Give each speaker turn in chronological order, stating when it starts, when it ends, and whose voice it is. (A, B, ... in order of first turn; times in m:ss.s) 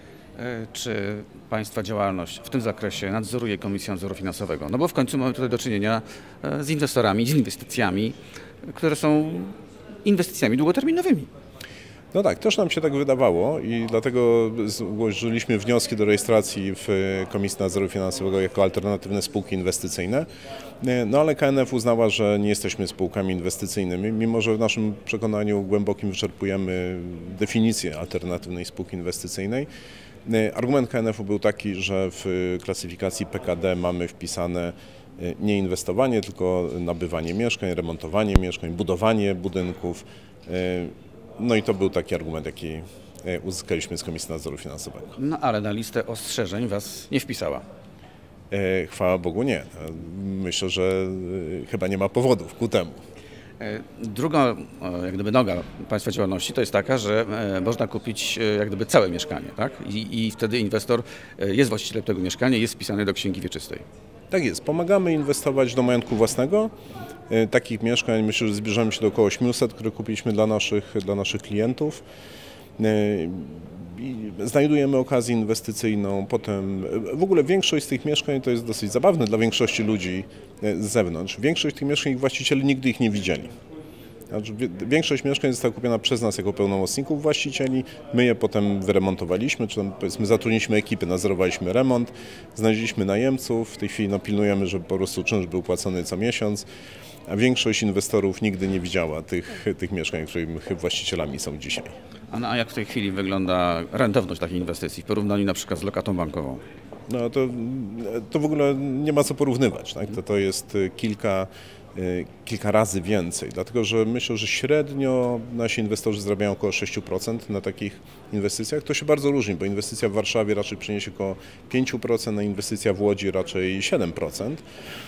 0:00.4-0:11.3 A
0:12.1-0:20.3 B
0:20.8-0:29.7 B
0:30.2-0:45.2 B
0:45.2-0:47.6 A
0:48.5-0:53.0 B
0:53.6-1:03.8 A
1:04.3-1:06.7 B
1:07.3-1:12.0 B
1:12.8-1:23.5 B
1:24.3-1:36.6 B
1:37.3-1:41.9 B
1:42.3-1:46.6 A
1:47.1-2:04.6 B